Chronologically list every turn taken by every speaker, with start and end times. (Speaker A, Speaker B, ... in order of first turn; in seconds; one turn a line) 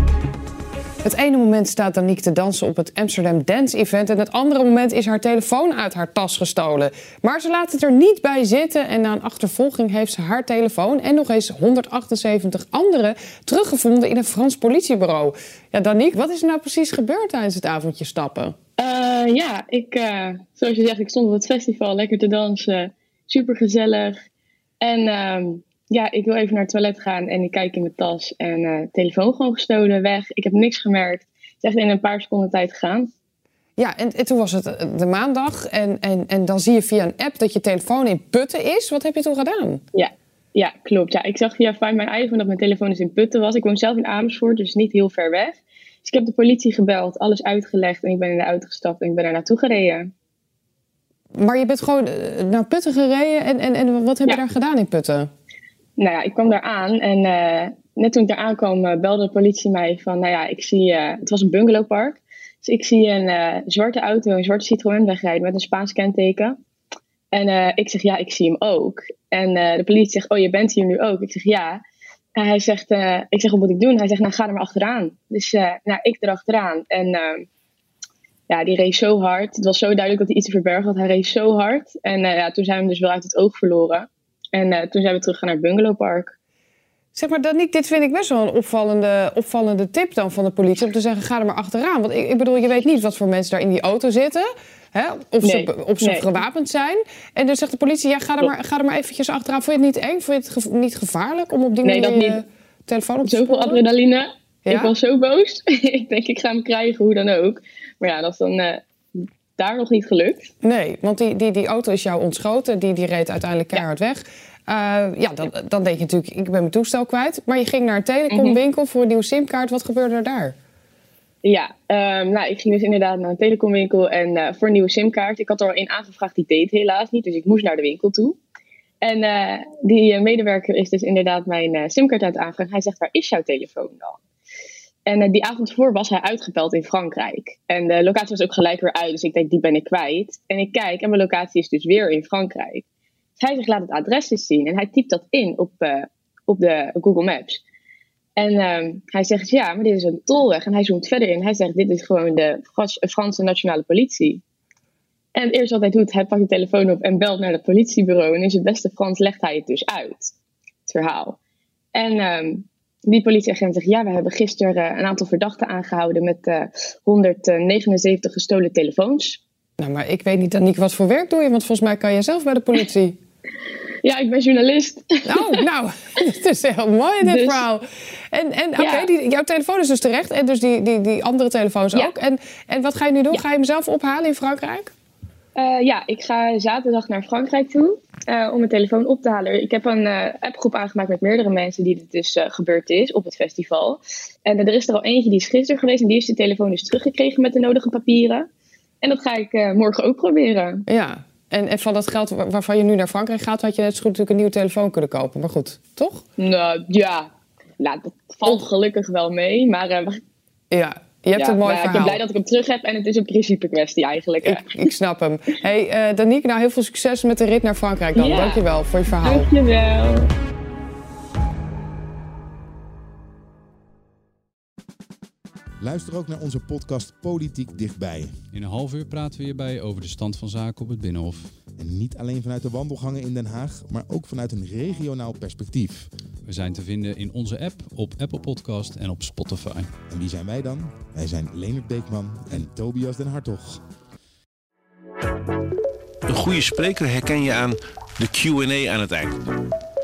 Speaker A: 1.0-18.6
Speaker B: 18.8-24.2
Speaker B: 24.8-33.1
Speaker A: 33.8-39.8
Speaker B: 39.9-50.1
Speaker A: 51.4-55.3
Speaker B: 56.0-66.6
Speaker B: 67.3-71.8
Speaker B: 72.3-77.5
Speaker B: 78.5-86.3
Speaker A: 87.1-103.8
Speaker B: 95.4-96.3
Speaker B: 101.8-102.4
Speaker B: 103.2-110.5
Speaker A: 104.7-104.9
Speaker A: 110.6-120.6
Speaker B: 118.3-118.6
Speaker B: 121.4-128.4
Speaker B: 129.0-134.2
Speaker B: 135.1-142.8
Speaker B: 143.4-147.6
Speaker B: 148.4-154.4
Speaker B: 155.3-160.3
Speaker B: 160.9-161.4
Speaker B: 161.9-169.4
Speaker A: 169.8-173.2
Speaker B: 174.0-175.5
Speaker A: 175.3-184.9
Speaker B: 177.2-177.6
Speaker B: 178.8-179.1
Speaker B: 185.6-198.5
Speaker B: 199.0-200.8
Speaker A: 200.9-206.2
Speaker B: 206.4-210.2
Speaker A: 210.7-212.2
Speaker B: 211.4-214.9
Speaker A: 214.4-219.5
Speaker B: 218.2-218.6
Speaker B: 219.2-220.3
Speaker C: 225.8-228.4
Speaker D: 228.5-231.6
Speaker C: 231.7-236.1
Speaker D: 236.4-240.0
Speaker C: 240.1-243.8
Speaker E: 246.3-249.4